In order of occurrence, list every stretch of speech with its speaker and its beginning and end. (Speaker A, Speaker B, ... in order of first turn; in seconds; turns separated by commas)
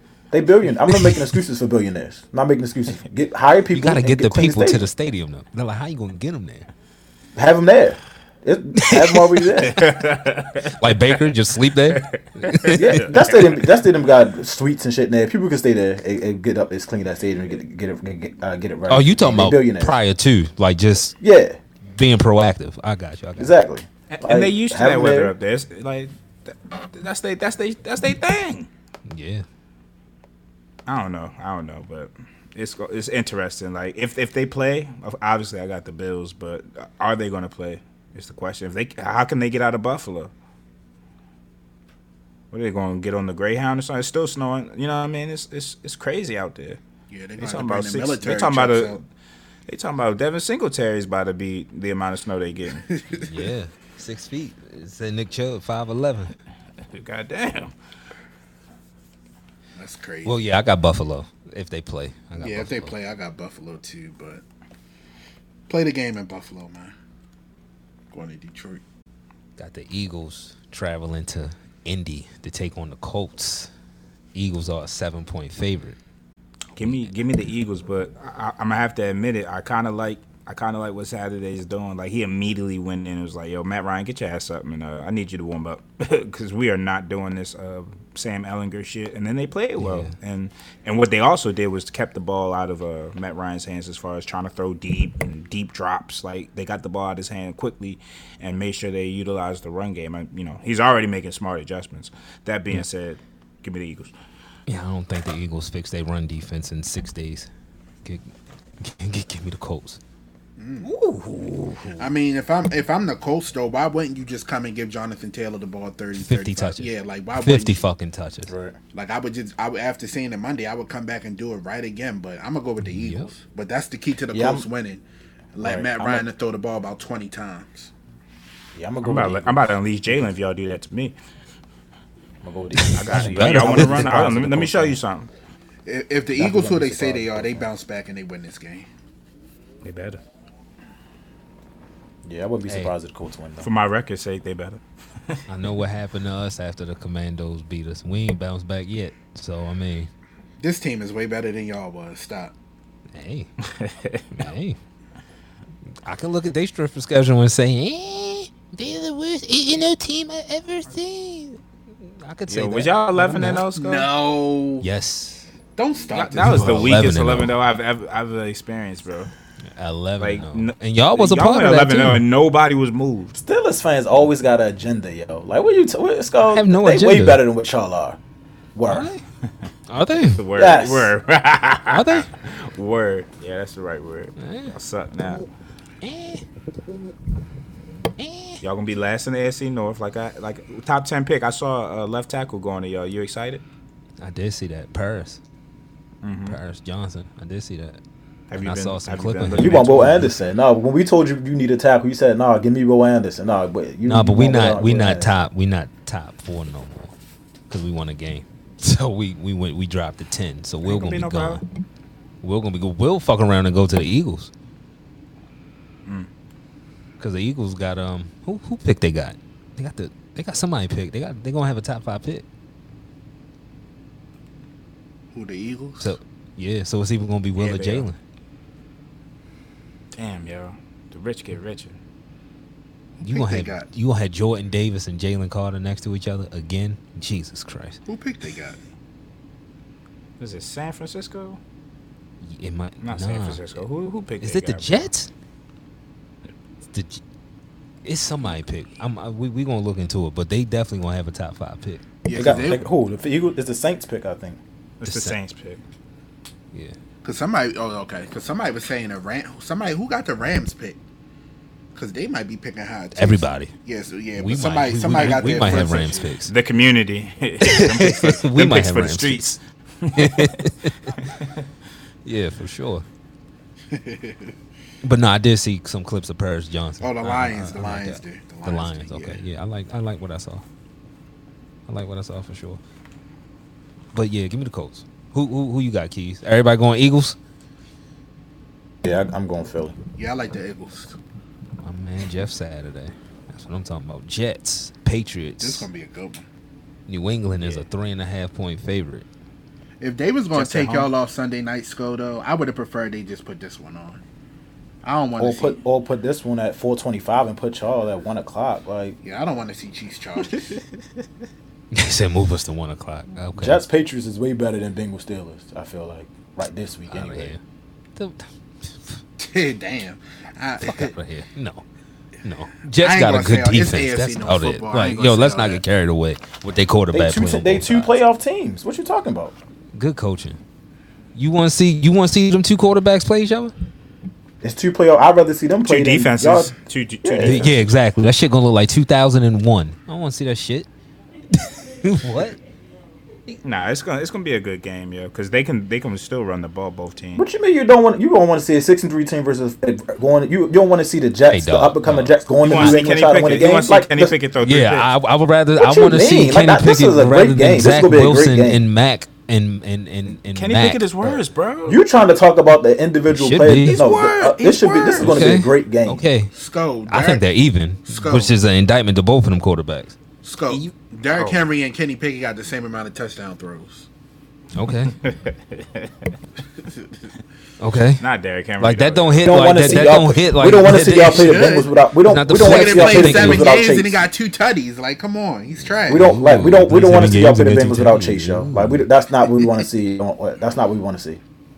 Speaker A: 0.3-4.8, Speaker B: 0.9-1.2, Speaker B: 3.7-6.7, Speaker A: 7.3-9.9, Speaker B: 8.8-9.4, Speaker C: 9.6-11.1, Speaker B: 10.8-13.2, Speaker C: 11.8-13.7, Speaker A: 12.7-19.9, Speaker B: 18.9-21.2, Speaker A: 21.2-21.6, Speaker B: 21.9-23.6, Speaker A: 23.4-25.4, Speaker C: 24.1-28.7, Speaker B: 29.1-29.4, Speaker C: 30.9-40.3, Speaker C: 42.5-46.8, Speaker D: 47.1-49.0, Speaker C: 47.4-49.1, Speaker C: 49.7-52.8, Speaker D: 52.9-53.4, Speaker B: 53.2-56.3, Speaker C: 56.9-57.7, Speaker D: 59.8-60.4, Speaker B: 60.2-62.9, Speaker D: 62.4-64.4, Speaker D: 65.7-67.0, Speaker D: 68.1-68.8, Speaker B: 69.6-73.7, Speaker B: 74.3-76.0, Speaker C: 76.8-104.1, Speaker B: 76.8-77.2, Speaker B: 89.8-90.1, Speaker B: 104.7-107.5, Speaker B: 108.0-110.0, Speaker D: 110.6-110.9, Speaker B: 110.8-112.1, Speaker D: 112.0-117.9, Speaker B: 116.2-118.5, Speaker A: 118.5-118.8, Speaker D: 118.9-125.0, Speaker B: 122.9-123.3, Speaker A: 124.3-124.7, Speaker D: 125.5-127.9, Speaker A: 125.6-126.3, Speaker A: 128.7-130.3, Speaker C: 129.0-131.2, Speaker A: 132.4-135.0, Speaker B: 132.8-134.2, Speaker C: 132.9-135.3, Speaker D: 135.9-138.9, Speaker A: 136.3-137.7, Speaker C: 139.8-140.2, Speaker A: 142.2-143.7, Speaker B: 142.7-142.9, Speaker C: 143.6-145.4, Speaker B: 145.5-150.1, Speaker D: 150.6-152.5, Speaker B: 153.1-153.5, Speaker C: 153.7-154.3, Speaker B: 154.4-154.8, Speaker B: 156.1-163.7, Speaker C: 162.5-164.1, Speaker D: 163.8-164.9, Speaker B: 164.8-165.5, Speaker D: 165.8-167.0, Speaker C: 166.1-169.3, Speaker B: 166.4-167.6, Speaker B: 169.8-172.2, Speaker C: 170.2-173.4, Speaker A: 173.4-178.2, Speaker B: 176.5-177.4, Speaker A: 178.8-179.1, Speaker B: 178.9-179.2, Speaker B: 179.9-180.4, Speaker C: 180.4-185.5, Speaker A: 180.6-181.1, Speaker B: 181.9-182.3, Speaker B: 184.4-184.7, Speaker B: 186.0-186.4, Speaker B: 188.2-188.6, Speaker C: 188.6-193.6, Speaker B: 194.2-195.4, Speaker C: 196.2-196.6, Speaker B: 196.5-198.0, Speaker C: 198.5-200.0, Speaker B: 198.6-200.3, Speaker A: 199.6-205.3, Speaker B: 204.1-207.1, Speaker B: 207.7-211.6, Speaker C: 210.8-211.6, Speaker B: 212.4-214.5, Speaker B: 217.2-222.4, Speaker D: 225.3-226.2, Speaker B: 226.0-228.2, Speaker C: 227.6-228.1, Speaker C: 230.1-232.0, Speaker D: 233.2-233.9, Speaker B: 233.2-238.0, Speaker D: 238.1-238.8, Speaker C: 240.4-241.6, Speaker B: 242.4-243.8, Speaker C: 243.0-245.1, Speaker B: 244.4-245.3, Speaker B: 246.9-247.2, Speaker B: 248.0-252.0, Speaker D: 252.2-252.9, Speaker A: 252.3-254.6, Speaker C: 255.0-255.8, Speaker B: 255.0-255.4, Speaker D: 257.2-261.0, Speaker D: 261.9-266.3, Speaker B: 263.1-263.7, Speaker B: 264.4-266.5, Speaker C: 265.2-265.7, Speaker C: 266.5-270.7, Speaker B: 267.6-269.6, Speaker B: 270.2-271.2, Speaker B: 272.2-273.1, Speaker D: 273.9-274.5, Speaker B: 275.0-280.6, Speaker D: 277.0-279.4, Speaker B: 281.9-282.8, Speaker B: 284.1-287.4, Speaker A: 289.0-290.0, Speaker D: 290.2-291.2, Speaker B: 291.8-295.9, Speaker D: 295.6-296.5, Speaker B: 297.1-299.2, Speaker D: 300.0-304.2, Speaker B: 300.6-301.1, Speaker D: 305.0-305.8, Speaker A: 305.4-309.2, Speaker D: 309.2-310.8, Speaker B: 311.9-313.8, Speaker A: 313.5-317.6, Speaker B: 317.1-317.6, Speaker B: 318.2-318.5, Speaker D: 319.4-321.1, Speaker B: 320.8-321.8, Speaker B: 322.4-328.1, Speaker D: 323.0-325.8, Speaker A: 327.1-329.6, Speaker B: 329.9-330.6, Speaker B: 331.4-333.7, Speaker A: 334.6-337.7, Speaker C: 335.8-337.9, Speaker B: 337.4-340.9, Speaker B: 341.6-342.6, Speaker C: 343.5-347.4, Speaker A: 347.3-354.4, Speaker B: 351.5-352.9, Speaker C: 352.6-355.1, Speaker B: 354.6-361.4, Speaker A: 355.8-358.8, Speaker C: 360.5-362.0, Speaker A: 361.9-366.3, Speaker B: 363.3-364.1, Speaker C: 363.9-365.3, Speaker B: 365.2-366.5, Speaker D: 366.5-367.4, Speaker B: 367.1-370.1, Speaker D: 368.1-368.5, Speaker D: 370.4-374.1, Speaker C: 370.7-371.6, Speaker B: 374.8-375.1, Speaker C: 375.2-376.1, Speaker B: 377.8-378.2, Speaker C: 378.2-379.7, Speaker B: 378.8-381.6, Speaker A: 379.4-384.3, Speaker D: 380.9-381.9, Speaker B: 382.2-383.8, Speaker D: 382.5-386.4, Speaker A: 386.1-391.4, Speaker B: 386.1-389.1